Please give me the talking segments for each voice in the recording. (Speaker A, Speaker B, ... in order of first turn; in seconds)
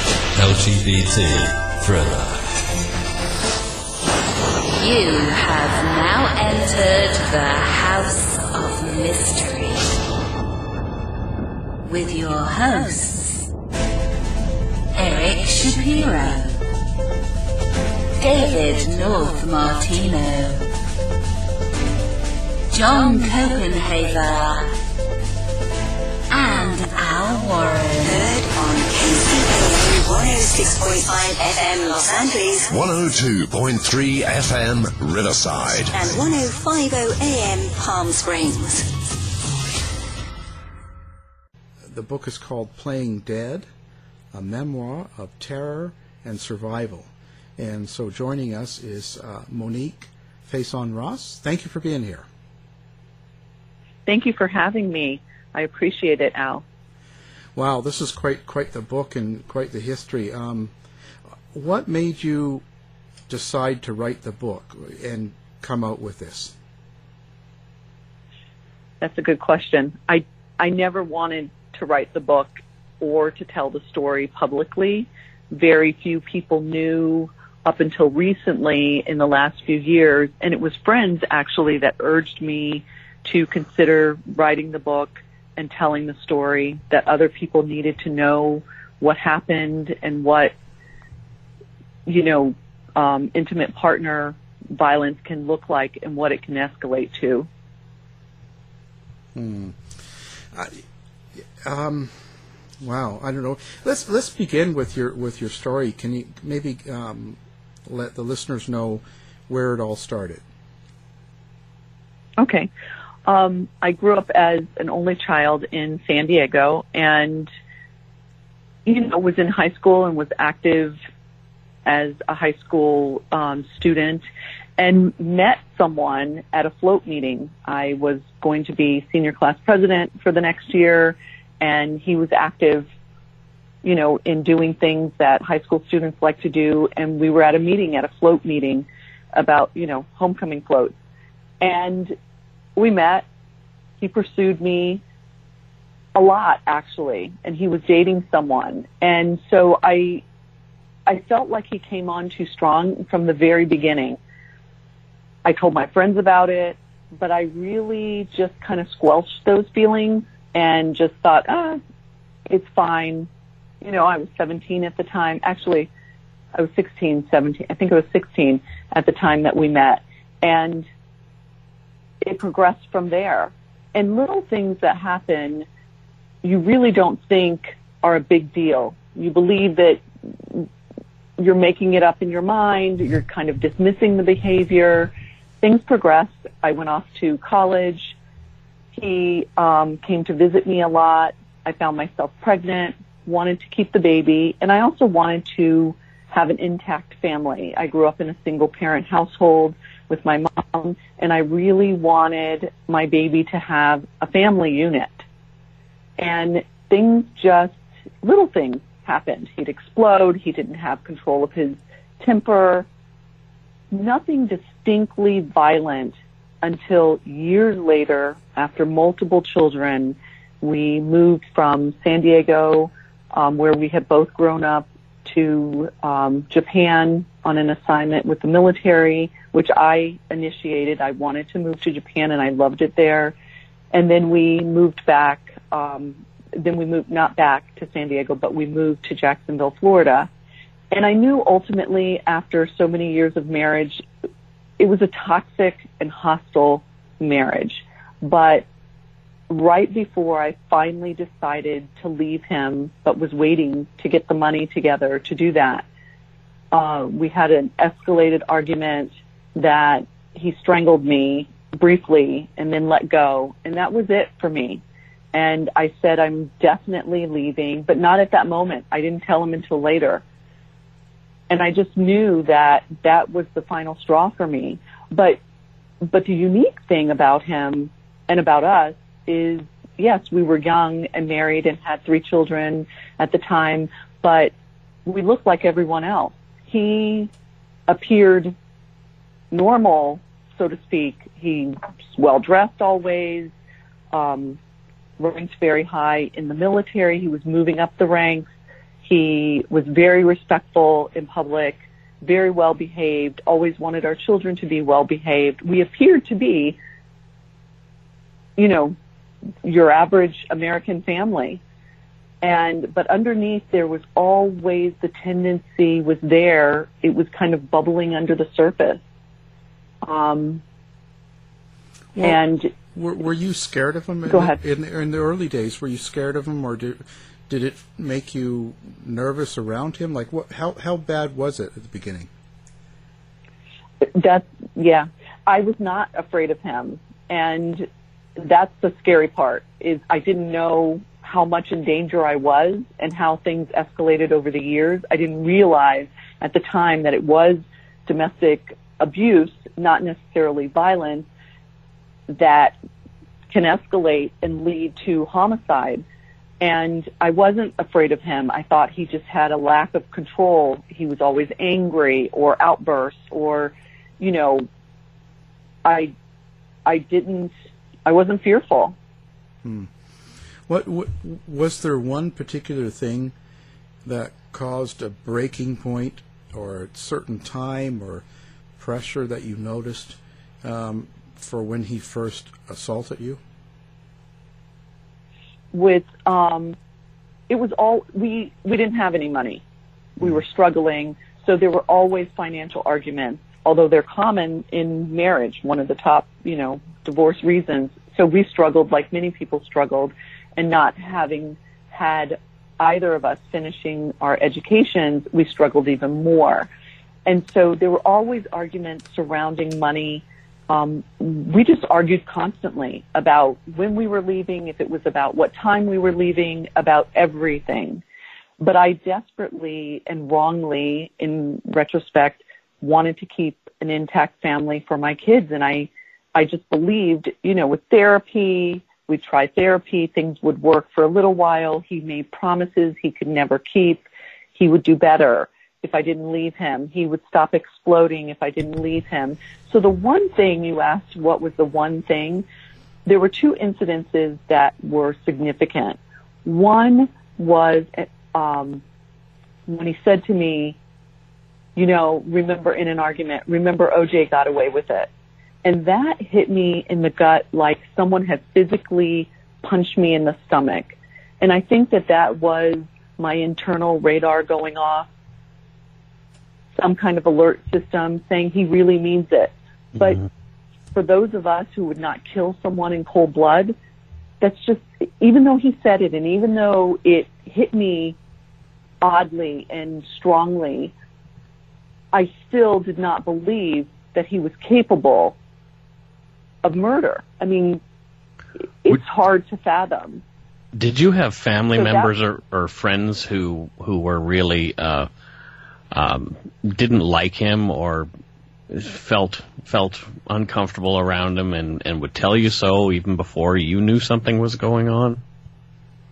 Speaker A: 0.3-2.4, 490.8-495.1, 495.9-498.1, 498.7-505.2
Speaker B: 4.8-9.9, 11.8-13.5, 14.9-16.6, 18.2-20.6, 22.7-24.7, 26.3-28.3
Speaker C: 28.2-32.7, 35.9-38.9
Speaker D: 32.7-36.1
Speaker E: 41.8-43.7, 44.3-52.3, 57.5-60.7, 61.5-62.6, 63.3-66.5, 99.3-100.8, 101.4-110.4, 322.1-332.3, 369.6-369.9, 370.7-373.4, 374.0-378.2, 378.8-383.4
Speaker F: 54.1-56.6, 69.0-90.5, 92.1-97.5, 112.4-112.7, 113.3-117.5, 118.9-121.0, 121.8-124.2, 124.8-132.9, 133.8-140.9, 141.6-142.2, 142.8-143.3, 144.0-145.0, 146.2-150.2, 151.1-154.2, 155.4-161.8, 162.5-163.3, 163.8-165.9, 166.6-170.9, 172.2-175.7, 176.4-180.7, 181.4-188.2, 188.9-205.2, 206.2-212.9, 213.9-233.4, 233.9-240.3, 240.9-244.0, 244.8-248.7, 249.5-255.8, 256.7-264.8, 265.3-270.2, 271.5-275.4, 276.0-284.5, 285.1-287.3, 287.9-288.6, 289.5-293.5, 294.1-294.6, 295.2-298.5, 299.0-306.8, 308.6-309.0, 309.6-311.6, 312.4-319.0, 320.0-320.6, 322.2-322.7, 324.3-324.6, 334.0-337.9, 338.4-351.3, 352.3-352.7, 353.5-356.0, 356.6-364.7, 365.9-366.1, 366.9-367.5, 368.1-369.0, 385.7-386.8, 387.5-389.6, 390.2-406.7, 407.3-418.0, 418.6-434.0, 434.6-442.4, 443.1-448.8, 449.7-450.8, 451.8-455.1, 455.6-465.1, 466.8-470.2, 470.9-473.8, 474.4-478.2, 479.0-480.9, 482.1-485.4, 486.6-487.8, 488.8-490.2, 491.7-492.1